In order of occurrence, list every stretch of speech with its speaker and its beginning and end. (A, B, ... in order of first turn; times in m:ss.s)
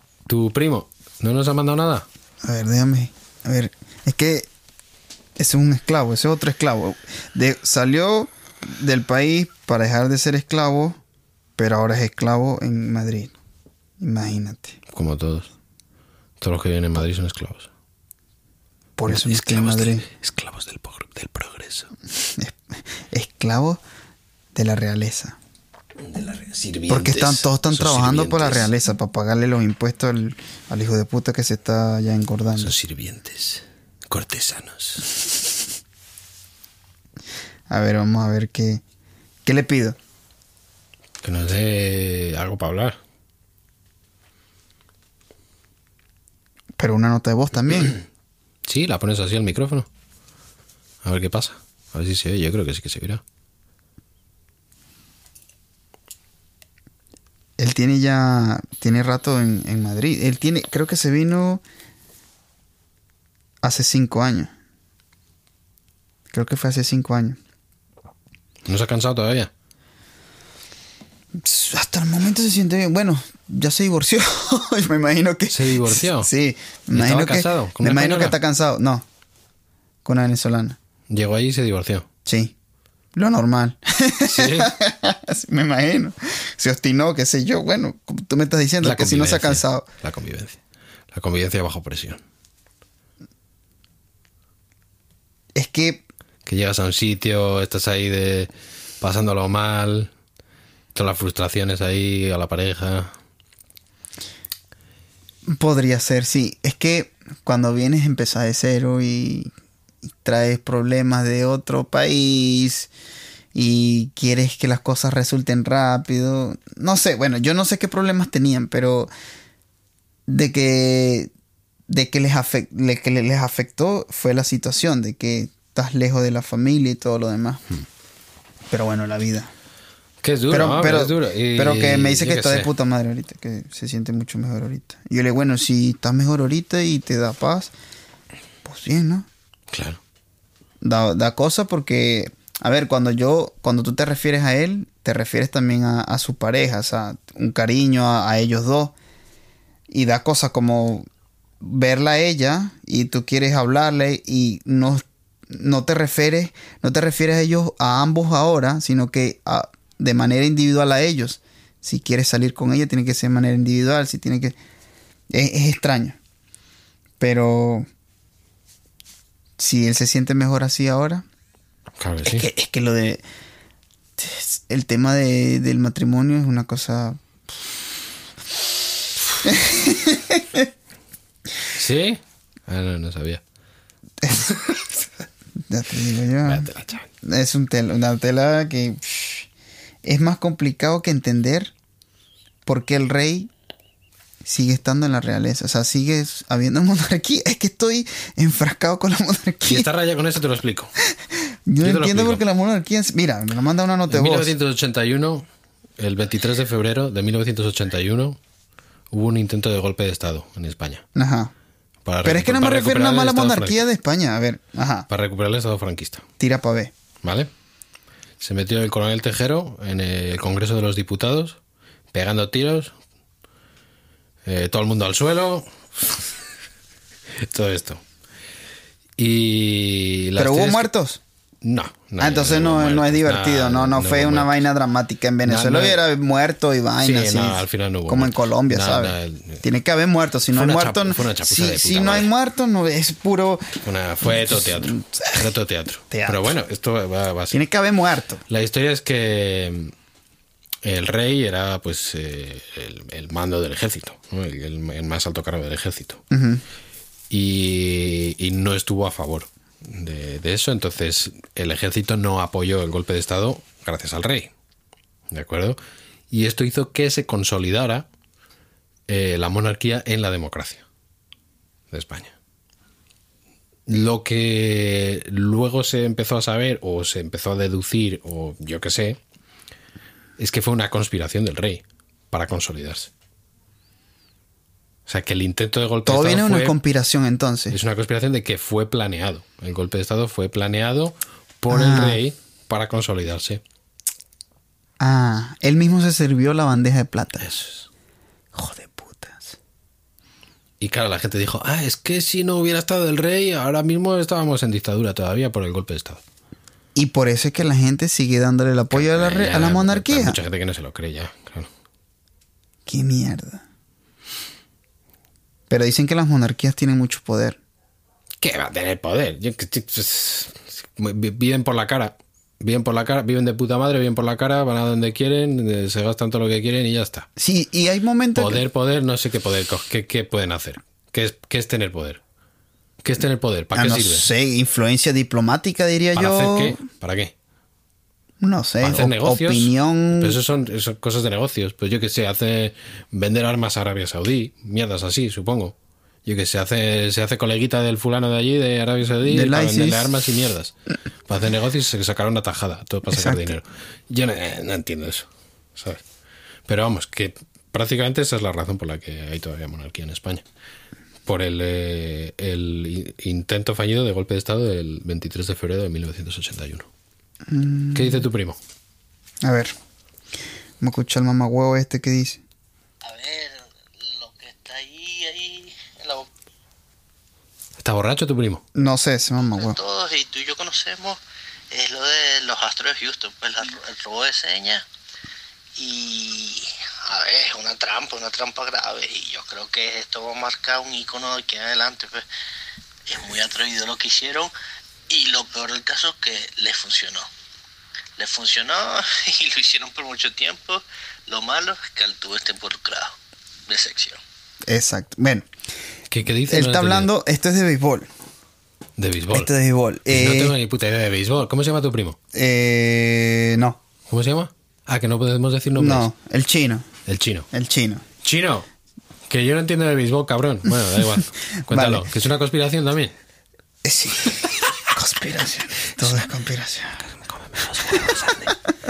0:00.2-0:02.0 A
0:02.4-0:04.5 B
0:05.4-0:11.0 B
0:11.6-0:13.3 B
0:14.0-0:14.8 B
0:14.9-0:15.5 A
0:16.4-0:17.7 A
0:19.0-0:20.0 B
0:19.1-0:21.9 A
0:22.1-0:23.8 B
0:24.5-0:25.4 B
0:26.0-0:28.7 A
0:26.9-0:32.8 B
0:32.6-0:35.1 A
0:37.7-0:38.8 B
0:39.4-0:40.0 B
0:41.2-0:43.0 A
0:46.8-0:48.0 B
0:48.6-0:49.9 A
0:51.0-0:53.2 A
0:57.6-1:01.6 B
1:03.6-1:04.5 B
1:06.3-1:07.4 B
1:08.6-1:09.5 A
1:11.4-1:19.0 B
1:15.5-1:16.3 A
1:16.9-1:18.4 A
1:20.0-1:20.8 B
1:21.1-1:22.0 A
1:22.2-1:22.5 B
1:23.1-1:29.8 B
1:24.2-1:24.7 A
1:28.8-1:30.6 A
1:31.1-1:32.2 A
1:35.5-1:36.0 B
1:36.4-1:40.1 A
1:40.9-1:43.1 A
1:45.4-1:49.5 B
1:50.2-1:52.9 B
1:53.5-1:59.1 B
2:00.3-2:01.3 B
2:01.9-2:07.6 B
2:08.7-2:09.5 B
2:10.2-2:12.7 A
2:10.5-2:17.7 B
2:18.6-2:19.3 B
2:19.7-2:20.0 A
2:20.8-2:28.9 B
2:29.9-2:31.1 B
2:31.6-2:44.6 B
2:45.3-2:46.2 B
2:47.2-2:47.9 B
2:49.6-2:51.2 B
2:52.0-2:52.5 A
2:52.2-2:53.2 B
2:54.2-2:57.2 B
2:59.4-3:00.7 B
3:01.7-3:03.4 A
3:04.2-3:04.5 B
3:05.7-3:06.7 B
3:06.4-3:07.0 A
3:07.2-3:09.5 B
3:10.0-3:11.7 B
3:12.6-3:13.5 B
3:14.4-3:19.9 B
3:19.6-3:20.9 A
3:21.3-3:24.5 B
3:21.8-3:22.4 A
3:24.1-3:25.4 A
3:26.0-3:28.4 A
3:29.1-3:31.0 A
3:31.1-3:31.5 B
3:32.0-3:33.8 A
3:32.2-3:35.1 B
3:35.1-3:36.2 A
3:36.4-3:36.9 B
3:37.2-3:37.5 A
3:38.4-3:41.6 A
3:42.1-3:42.9 A
3:44.4-3:46.3 A
3:47.4-3:48.0 A
3:49.2-3:50.9 A
3:50.4-3:51.2 B
3:51.6-3:54.7 A
3:52.2-4:03.8 B
3:55.4-3:56.0 A
3:57.0-3:59.6 A
4:00.5-4:02.3 A
4:03.8-4:07.6 A
4:04.5-4:05.4 B
4:06.1-4:06.4 B
4:07.5-4:08.4 B
4:08.5-4:09.9 A
4:10.8-4:16.2 A
4:16.3-4:16.6 B
4:17.3-4:24.5 A
4:25.3-4:25.8 A
4:26.3-4:28.1 A
4:29.1-4:30.8 A
4:31.9-4:32.3 A
4:33.9-4:39.2 A
4:40.4-4:43.1 A
4:45.1-4:46.8 A
4:46.0-4:47.8 B
4:47.7-4:53.6 A
4:51.7-4:52.2 B
4:55.0-4:57.4 B
4:57.4-4:57.9 A
4:58.5-4:59.6 B
5:00.8-5:06.2 A
5:06.9-5:10.4 B
5:08.9-5:11.7 A
5:12.8-5:13.6 B
5:15.7-5:17.6 B
5:18.4-5:27.3 A
5:27.4-5:28.6 B
5:28.3-5:32.2 A
5:33.0-5:34.3 A
5:33.7-5:36.8 B
5:36.1-5:37.3 A
5:38.4-5:40.4 B
5:38.8-5:50.7 A
5:49.3-5:50.1 B
5:51.3-5:56.0 A
5:53.1-5:53.5 B
5:56.6-6:00.4 A
6:01.2-6:06.9 A
6:07.5-6:08.2 B
6:07.9-6:08.6 A
6:09.4-6:09.7 B
6:10.8-6:12.4 B
6:13.0-6:16.3 C
6:17.8-6:18.6 A
6:18.7-6:19.8 B
6:19.4-6:24.8 C
6:25.8-6:32.2 C
6:33.1-6:34.5 C
6:35.1-6:37.3 C
6:38.2-6:43.1 C
6:43.7-6:44.2 C
6:44.7-6:45.5 B
6:46.1-6:47.1 A
6:46.5-6:48.1 B
6:49.0-6:49.5 A
6:49.3-6:50.5 B
6:50.1-6:52.2 A
6:52.3-6:53.8 B
6:54.1-6:56.1 A
6:55.8-6:56.9 B
6:57.0-6:57.5 A
6:57.5-6:58.0 B
6:58.2-6:58.7 A
6:59.3-7:03.1 A
7:01.7-7:02.1 B
7:03.8-7:07.0 B
7:07.0-7:08.6 A
7:07.9-7:08.1 B